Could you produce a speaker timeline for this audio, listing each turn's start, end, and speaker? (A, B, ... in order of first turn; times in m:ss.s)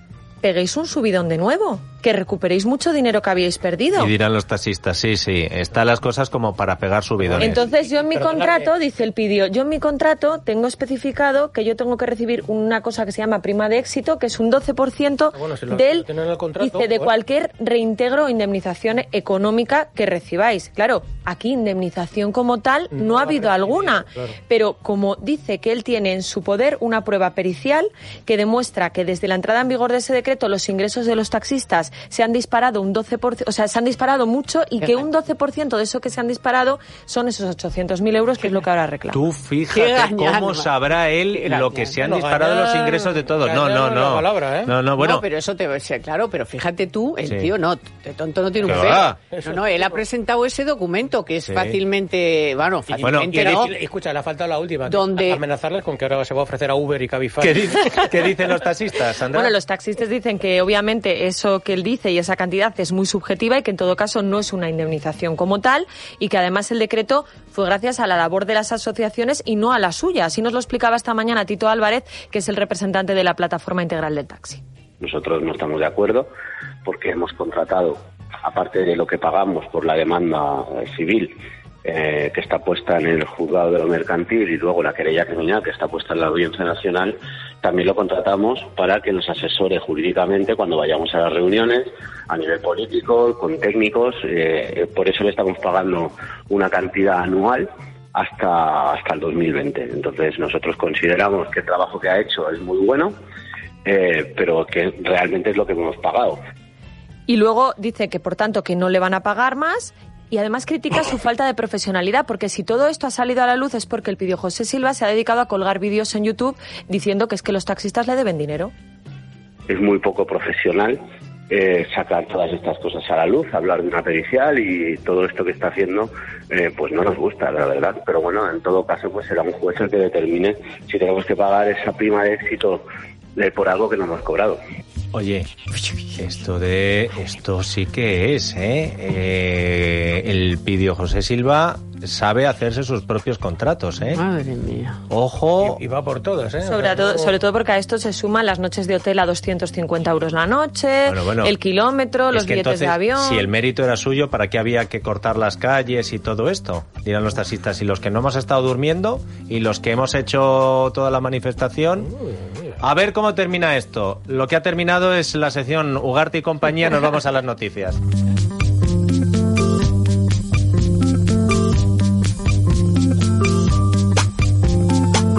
0:00.4-0:04.1 A
0:04.0-0:07.6 B
0:07.2-0:08.7 C
0:07.4-0:39.2 A
0:15.3-0:17.1 C
0:22.9-0:24.4 C
0:39.1-0:45.3 B
0:39.7-0:40.7 D
0:41.3-0:42.0 D
0:42.0-0:44.7 C
0:45.0-0:53.7 D
0:47.2-0:47.5 B
0:48.6-0:49.2 B
0:48.7-0:50.0 C
0:51.4-0:51.8 B
0:52.9-0:57.8 C
0:53.0-0:53.6 B
0:54.8-0:55.4 D
0:57.4-0:59.5 B
0:59.3-1:14.6 A
1:15.0-1:16.3 E
1:16.8-1:43.2 E
1:43.8-1:46.4 E
1:47.3-1:58.7 A
1:59.7-2:12.8 E
2:13.4-2:14.6 E
2:15.1-2:15.5 B
2:16.2-2:24.2 B
2:24.1-2:25.0 D
2:25.1-2:25.8 B
2:25.6-2:27.3 C
2:26.6-2:33.5 A
2:31.1-2:31.5 B
2:32.3-2:42.2 B
2:42.8-2:48.0 B